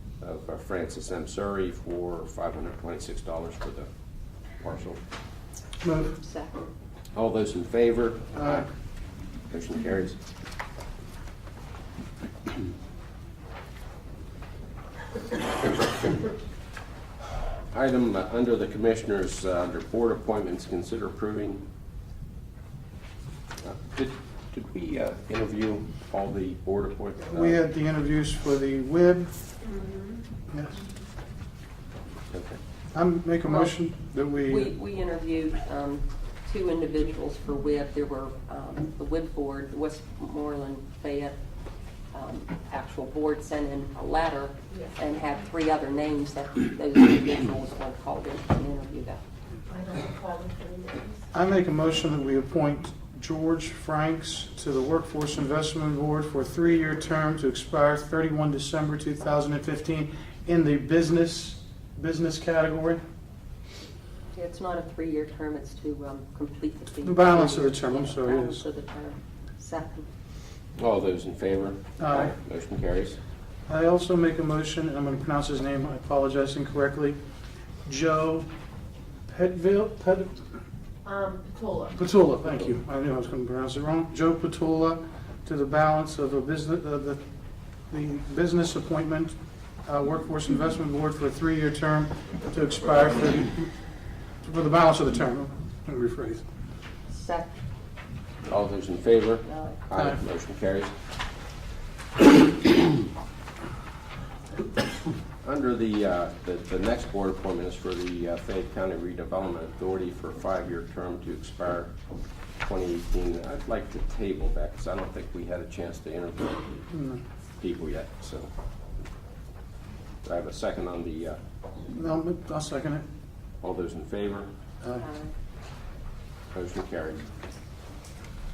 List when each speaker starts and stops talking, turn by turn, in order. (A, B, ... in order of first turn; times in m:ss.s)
0:00.2-0:03.9 A
0:04.6-0:05.0 A
0:05.8-0:06.2 B
0:06.0-0:06.7 C
0:07.2-0:08.7 A
0:08.3-0:08.7 B
0:09.5-0:10.2 A
0:17.7-0:21.6 A
0:23.6-0:27.6 A
0:27.3-0:29.5 B
0:30.5-0:30.8 B
0:32.3-0:32.6 A
0:32.9-0:34.7 B
0:33.5-0:33.7 C
0:34.5-0:41.4 C
0:42.1-0:49.2 C
0:49.7-0:51.2 D
0:51.3-1:03.0 B
1:04.3-1:10.1 C
1:07.0-1:08.6 B
1:10.8-1:13.2 A
1:12.0-1:12.4 B
1:13.7-1:17.2 B
1:17.9-1:18.5 B
1:19.3-1:20.3 B
1:21.0-1:22.0 D
1:22.0-1:27.2 B
1:27.9-1:29.4 B
1:29.9-1:33.7 B
1:34.4-1:36.4 B
1:37.1-1:37.5 C
1:38.5-1:40.9 A
1:39.4-1:39.8 C
1:45.4-1:51.9 A
1:52.6-1:56.8 A
1:56.9-1:57.2 B
1:57.6-1:58.5 A
2:00.2-2:01.4 A
2:01.9-2:03.0 B
2:03.6-2:04.5 A
2:04.8-2:05.1 B
2:05.0-2:05.3 C
2:06.5-2:07.3 A